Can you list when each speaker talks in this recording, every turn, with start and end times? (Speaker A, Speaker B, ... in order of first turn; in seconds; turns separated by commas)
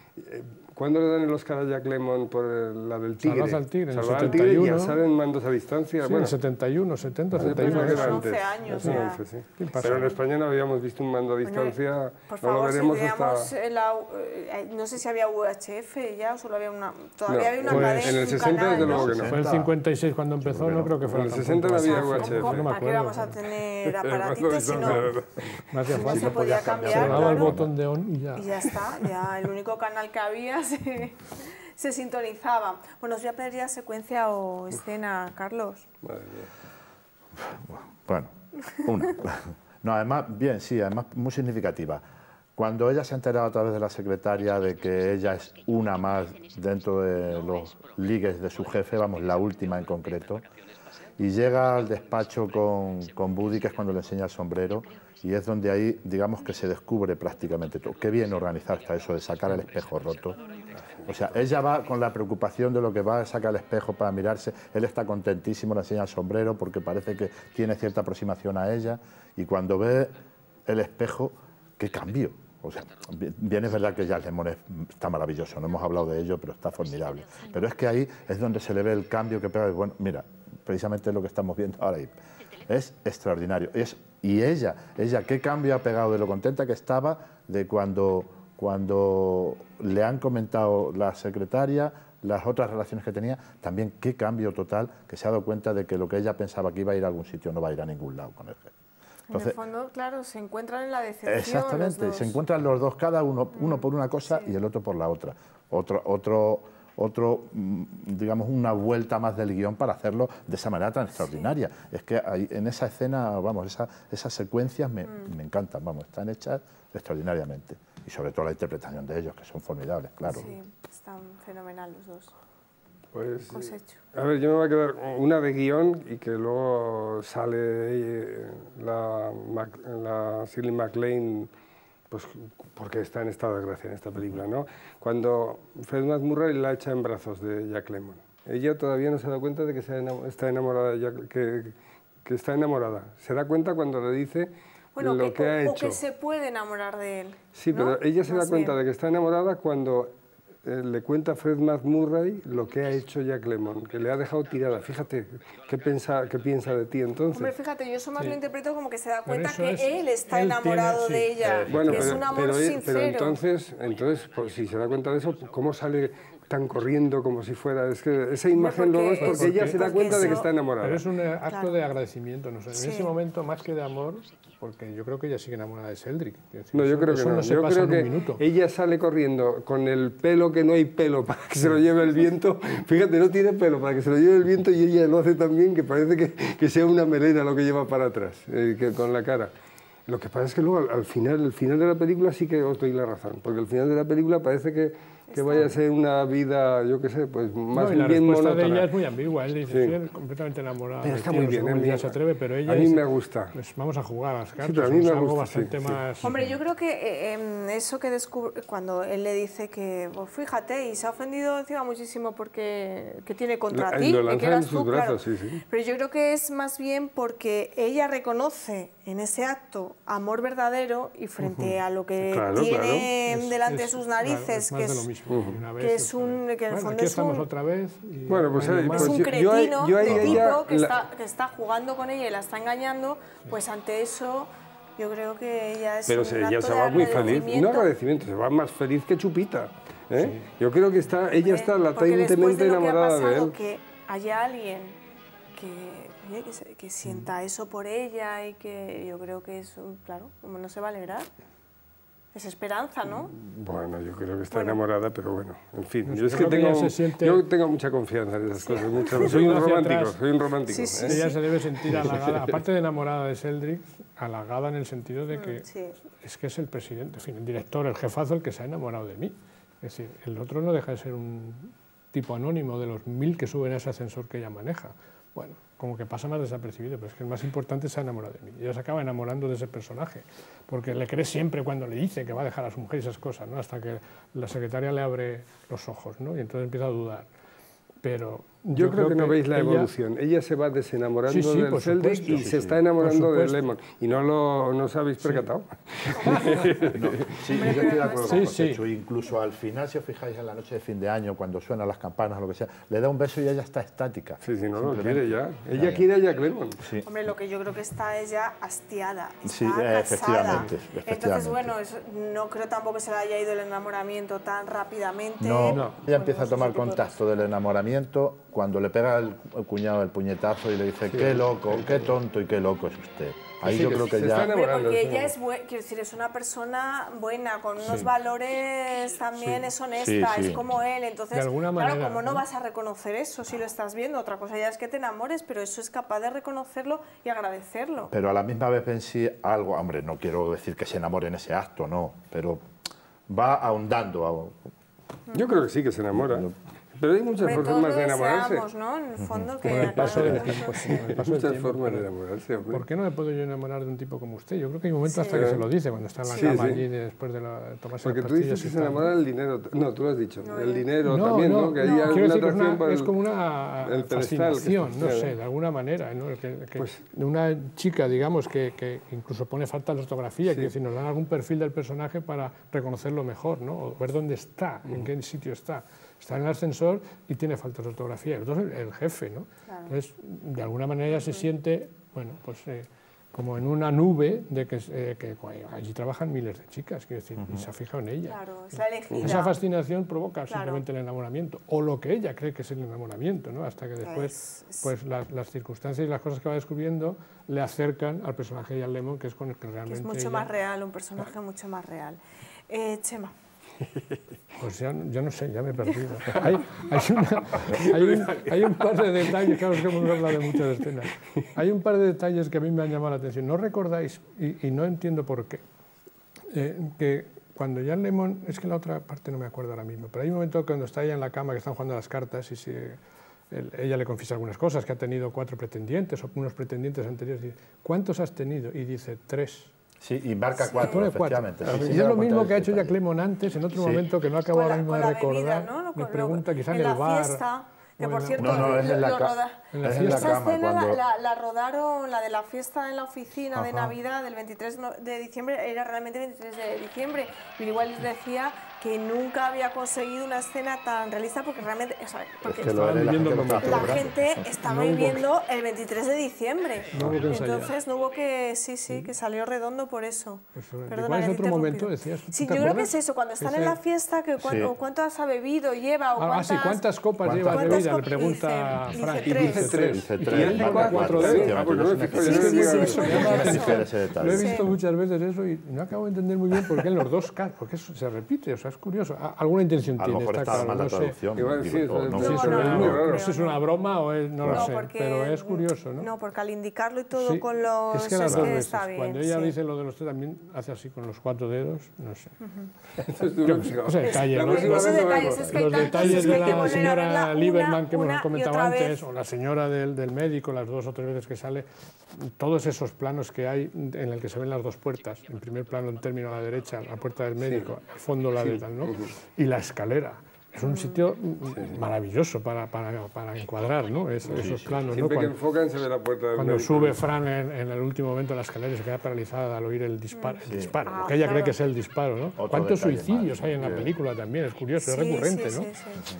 Speaker A: 0.2-6.3, Speaker B: 3.2-5.0, Speaker B: 6.0-10.2, Speaker A: 7.4-13.5, Speaker C: 7.5-9.2, Speaker C: 9.8-10.2, Speaker C: 11.4-19.1, Speaker A: 17.3-19.3, Speaker B: 17.6-18.3, Speaker D: 18.8-19.8, Speaker B: 19.1-23.4, Speaker D: 20.4-21.2, Speaker A: 21.1-22.7, Speaker C: 21.8-25.1, Speaker A: 23.8-25.7, Speaker B: 25.7-28.7, Speaker C: 25.9-27.6, Speaker D: 26.1-27.7, Speaker C: 28.4-35.9, Speaker A: 36.0-36.5, Speaker D: 37.4-42.0, Speaker D: 42.6-50.4, Speaker D: 51.2-60.4, Speaker D: 61.0-98.7, Speaker C: 99.3-102.4, Speaker D: 99.3-99.6, Speaker D: 101.3-120.5, Speaker C: 103.6-104.5, Speaker C: 120.3-122.3, Speaker A: 123.1-131.5, Speaker C: 123.5-124.0, Speaker A: 132.1-146.0, Speaker C: 145.0-148.8, Speaker A: 147.5-150.1, Speaker A: 150.7-157.5, Speaker C: 157.3-163.4, Speaker B: 159.2-161.6, Speaker A: 161.7-171.0, Speaker D: 161.7-162.2, Speaker C: 168.5-170.5, Speaker B: 169.2-178.4, Speaker C: 171.5-171.7, Speaker C: 172.7-173.1, Speaker A: 176.7-189.5, Speaker B: 181.5-181.8, Speaker A: 190.1-198.9, Speaker C: 195.3-195.7, Speaker B: 197.7-206.5, Speaker A: 199.7-199.9, Speaker A: 201.0-203.6, Speaker A: 204.6-206.0, Speaker C: 206.2-225.1, Speaker A: 213.7-215.6, Speaker B: 221.4-221.8, Speaker A: 222.2-223.1, Speaker B: 223.2-229.2, Speaker A: 225.3-225.6, Speaker C: 225.8-227.5, Speaker A: 228.3-231.0, Speaker C: 228.9-237.9, Speaker D: 230.1-230.4, Speaker A: 236.1-243.6, Speaker B: 240.2-240.5, Speaker C: 241.4-245.0, Speaker C: 245.5-251.3, Speaker B: 247.1-247.3, Speaker C: 252.3-253.3, Speaker A: 253.1-261.2, Speaker C: 254.5-254.8, Speaker B: 256.1-257.4, Speaker C: 258.7-259.2, Speaker B: 259.1-260.2, Speaker C: 260.7-261.4, Speaker B: 261.0-287.3, Speaker A: 262.0-262.4, Speaker C: 265.3-266.0, Speaker B: 288.0-289.9, Speaker A: 288.8-298.0, Speaker B: 291.3-293.7, Speaker D: 292.3-292.8, Speaker B: 295.2-295.5, Speaker B: 296.1-297.0, Speaker D: 296.9-306.1, Speaker C: 297.5-298.4, Speaker B: 298.2-298.8, Speaker A: 304.4-306.8, Speaker D: 306.8-307.1, Speaker C: 307.1-317.1, Speaker D: 309.4-311.7, Speaker B: 310.5-310.7, Speaker D: 315.4-324.5, Speaker B: 315.7-316.0, Speaker A: 321.1-321.4, Speaker B: 321.7-322.1, Speaker A: 323.6-325.3, Speaker C: 324.4-338.1, Speaker B: 327.8-328.1, Speaker B: 329.4-329.7, Speaker D: 330.0-330.7, Speaker B: 331.3-332.4, Speaker D: 338.1-342.6, Speaker D: 343.3-344.7, Speaker C: 345.3-345.6, Speaker A: 345.3-348.7, Speaker D: 346.1-346.5, Speaker C: 347.4-351.1, Speaker D: 349.2-349.6, Speaker B: 349.6-352.1, Speaker A: 349.7-352.8, Speaker B: 352.7-359.1, Speaker C: 355.1-355.5, Speaker A: 355.3-355.6, Speaker C: 356.3-356.7, Speaker A: 356.4-356.8, Speaker A: 358.0-363.1, Speaker C: 360.4-360.9, Speaker B: 361.1-388.4, Speaker C: 361.8-362.2, Speaker A: 363.8-365.4, Speaker C: 379.7-379.9, Speaker C: 381.1-381.4, Speaker D: 387.4-387.7, Speaker C: 388.2-389.6, Speaker A: 389.1-389.4, Speaker B: 389.2-400.5, Speaker C: 390.5-390.8, Speaker C: 394.0-394.9, Speaker C: 399.9-403.3, Speaker B: 404.6-415.6, Speaker A: 407.5-410.6, Speaker B: 416.5-423.0, Speaker B: 423.5-429.7, Speaker D: 430.0-433.0, Speaker C: 430.6-431.0, Speaker B: 430.8-437.4, Speaker D: 433.7-434.1, Speaker C: 434.5-452.8, Speaker B: 438.0-438.9, Speaker D: 438.4-441.0, Speaker B: 439.7-440.4, Speaker B: 443.6-443.9, Speaker D: 452.4-454.4, Speaker B: 452.6-454.0, Speaker C: 453.5-466.9, Speaker B: 454.6-455.3, Speaker B: 456.9-457.8, Speaker D: 457.0-457.2, Speaker B: 460.6-463.8, Speaker D: 464.4-464.7, Speaker B: 466.2-481.2, Speaker D: 467.2-467.9, Speaker C: 467.4-469.9, Speaker A: 469.2-473.7, Speaker D: 469.9-474.7, Speaker C: 472.1-474.7, Speaker D: 480.0-483.0, Speaker A: 481.4-483.3, Speaker C: 482.1-483.6, Speaker B: 482.2-486.1, Speaker D: 484.4-484.7, Speaker C: 484.5-489.6, Speaker B: 487.1-492.4, Speaker C: 492.4-492.7, Speaker A: 493.0-496.9, Speaker B: 493.4-515.4, Speaker C: 494.0-499.0, Speaker A: 507.4-507.7, Speaker A: 508.4-509.1, Speaker C: 510.6-511.0, Speaker A: 511.5-511.8, Speaker D: 514.3-514.9, Speaker A: 514.9-517.0, Speaker B: 516.4-525.7, Speaker C: 520.1-521.6, Speaker D: 520.5-520.9, Speaker D: 522.4-523.9, Speaker C: 524.8-526.1